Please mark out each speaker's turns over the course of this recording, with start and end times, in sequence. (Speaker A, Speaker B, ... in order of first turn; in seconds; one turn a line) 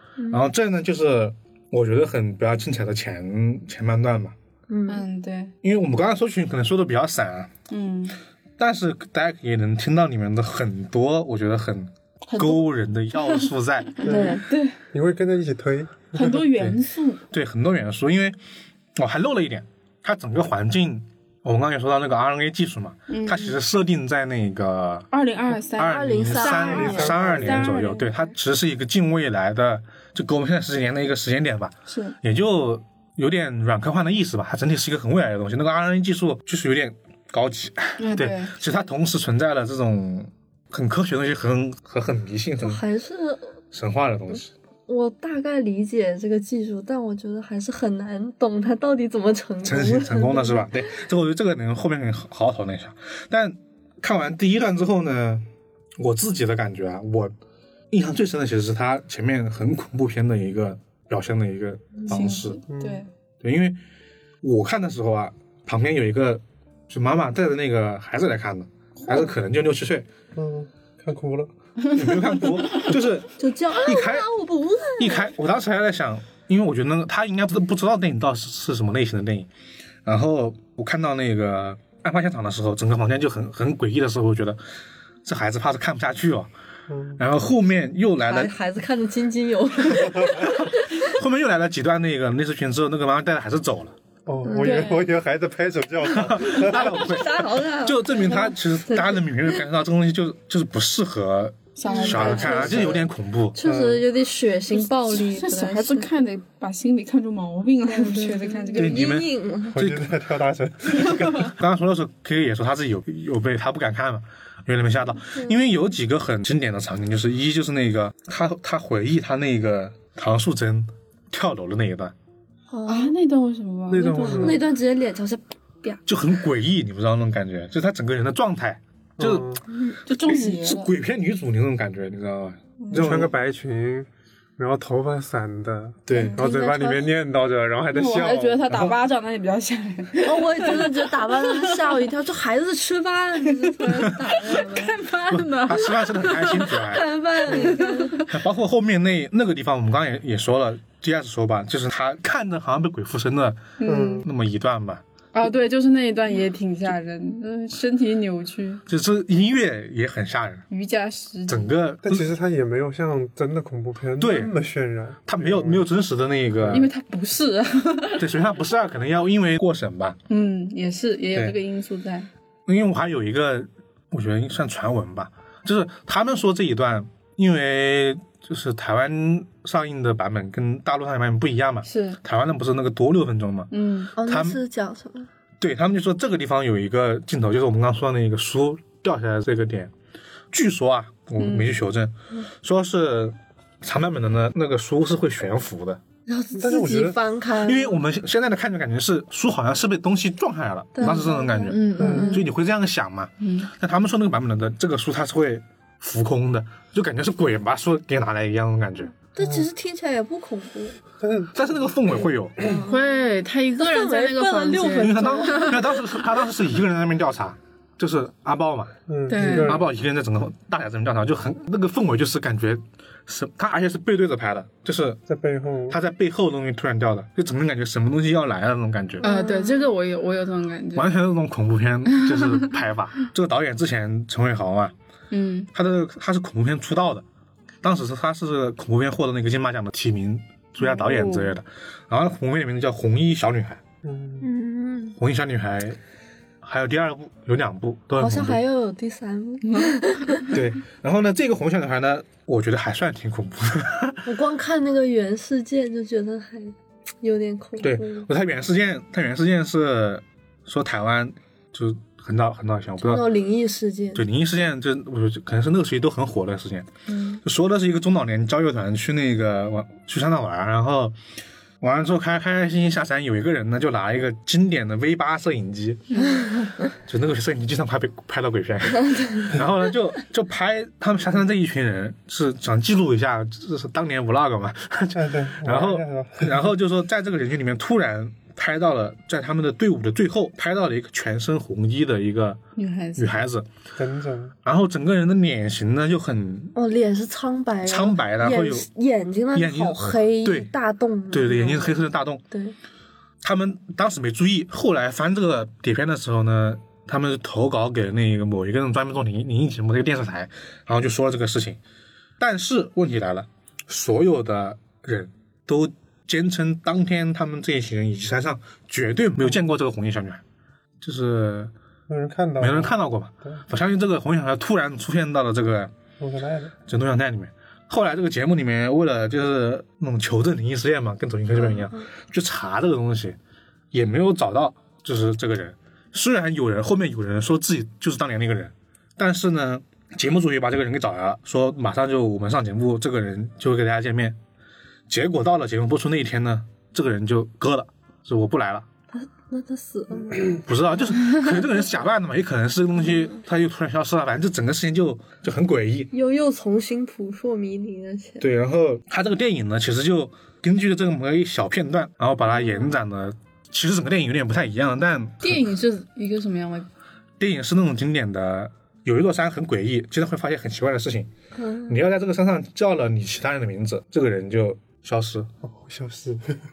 Speaker A: 0.2-0.5
Speaker B: 0.3-4.3
Speaker A: 4.7-5.0
Speaker C: 4.9-5.5
Speaker B: 5.6-7.5
Speaker C: 7.7-8.2
Speaker B: 8.6-14.0
Speaker C: 12.3-12.7
Speaker C: 13.9-14.8
Speaker D: 14.0-14.4
Speaker A: 14.0-14.4
Speaker D: 14.9-16.4
Speaker C: 16.1-17.2
Speaker B: 16.3-18.4
Speaker B: 18.9-25.1
Speaker C: 23.1-23.6
Speaker C: 25.1-28.3
Speaker B: 25.7-42.8
Speaker A: 25.8-27.2
Speaker D: 26.6-27.8
Speaker C: 31.9-32.2
Speaker C: 38.0-38.5
Speaker A: 42.6-43.5
Speaker B: 43.7-44.5
Speaker A: 44.9-50.7
Speaker B: 49.6-55.5
Speaker B: 56.0-57.3
Speaker B: 57.9-62.6
Speaker C: 62.1-63.1
Speaker D: 62.7-63.0
Speaker B: 63.4-63.8
Speaker B: 64.4-70.1
Speaker D: 70.3-71.5
Speaker B: 71.9-74.3
Speaker A: 73.4-75.3
Speaker B: 75.0-79.5
Speaker B: 80.0-84.6
Speaker B: 85.2-86.5
Speaker D: 86.9-87.2
Speaker B: 87.2-88.5
Speaker A: 88.2-91.1
Speaker B: 90.3-94.0
Speaker D: 94.3-96.9
Speaker A: 94.4-94.9
Speaker C: 94.6-95.1
Speaker B: 96.1-103.6
Speaker A: 96.6-99.2
Speaker C: 101.8-102.9
Speaker A: 101.9-103.0
Speaker D: 102.2-103.0
Speaker A: 103.5-106.1
Speaker D: 103.6-104.1
Speaker C: 104.7-109.0
Speaker A: 107.8-110.0
Speaker B: 108.7-110.1
Speaker D: 109.7-111.5
Speaker B: 111.0-122.1
Speaker A: 122.7-123.1
Speaker C: 122.9-124.7
Speaker D: 123.9-124.6
Speaker A: 124.4-126.0
Speaker B: 126.1-133.3
Speaker D: 129.2-129.6
Speaker A: 129.7-130.0
Speaker C: 130.1-130.9
Speaker C: 132.8-133.2
Speaker D: 132.9-138.7
Speaker B: 136.1-136.4
Speaker A: 136.4-137.1
Speaker C: 137.9-142.0
Speaker B: 138.7-139.0
Speaker A: 140.2-145.0
Speaker C: 143.6-146.8
Speaker B: 145.3-147.7
Speaker A: 146.7-148.2
Speaker C: 147.4-148.4
Speaker B: 148.3-155.0
Speaker C: 153.8-154.3
Speaker D: 153.8-154.3
Speaker C: 155.3-158.8
Speaker B: 158.9-160.7
Speaker C: 160.7-161.7
Speaker B: 161.5-162.3
Speaker D: 162.0-165.8
Speaker B: 164.2-164.5
Speaker B: 165.3-166.9
Speaker C: 166.7-168.3
Speaker B: 168.2-170.2
Speaker C: 170.3-172.3
Speaker B: 171.3-171.6
Speaker B: 172.7-184.6
Speaker C: 181.9-182.2
Speaker C: 183.7-184.1
Speaker A: 184.2-185.3
Speaker B: 185.6-189.9
Speaker B: 190.5-196.0
Speaker C: 191.4-191.8
Speaker A: 196.3-198.0
Speaker D: 196.6-197.2
Speaker B: 197.6-209.2
Speaker A: 201.0-202.4
Speaker C: 201.7-202.5
Speaker D: 202.0-202.3
Speaker C: 203.4-203.7
Speaker A: 209.3-211.0
Speaker D: 209.4-209.7
Speaker D: 211.2-212.8
Speaker B: 211.6-212.6
Speaker A: 212.6-213.2
Speaker C: 212.9-215.8
Speaker A: 213.8-216.1
Speaker B: 215.0-225.2
Speaker D: 219.1-219.9
Speaker C: 219.3-219.8
Speaker D: 225.3-226.0
Speaker B: 225.9-229.2
Speaker A: 229.2-229.9
Speaker C: 229.2-231.1
Speaker B: 230.9-234.9
Speaker C: 232.2-232.6
Speaker C: 235.3-235.7
Speaker B: 235.7-237.2
Speaker B: 237.8-243.8
Speaker C: 240.8-241.5
Speaker D: 244.0-244.5
Speaker A: 244.4-245.2
Speaker B: 245.2-246.0
Speaker B: 246.6-248.6
Speaker A: 248.2-250.5
Speaker C: 249.7-249.9
Speaker B: 250.5-254.2
Speaker A: 254.2-258.3
Speaker B: 257.8-263.3
Speaker A: 263.0-264.2
Speaker B: 264.1-266.9
Speaker C: 267.1-267.4
Speaker B: 267.4-271.1
Speaker B: 271.8-276.2
Speaker C: 276.1-276.4
Speaker B: 277.1-292.6
Speaker A: 279.1-279.5
Speaker D: 285.1-286.7
Speaker C: 292.8-293.4
Speaker B: 293.2-293.7
Speaker D: 294.0-294.6
Speaker B: 294.6-296.8
Speaker A: 296.8-302.8
Speaker B: 297.9-298.9
Speaker B: 299.5-300.7
Speaker B: 301.3-302.4
Speaker B: 303.4-311.8
Speaker B: 312.4-320.4
Speaker B: 321.0-321.7
Speaker D: 322.1-323.6
Speaker B: 322.6-325.9
Speaker D: 326.2-326.8
Speaker B: 326.9-333.4
Speaker B: 333.9-344.4
Speaker B: 345.1-348.9
Speaker A: 349.1-350.6
Speaker B: 350.7-356.1
Speaker A: 356.1-358.4
Speaker B: 358.4-365.7
Speaker A: 362.6-362.9
Speaker C: 365.4-366.9
Speaker B: 367.4-371.3
Speaker A: 371.6-372.0
Speaker B: 371.9-375.5
Speaker D: 375.6-376.6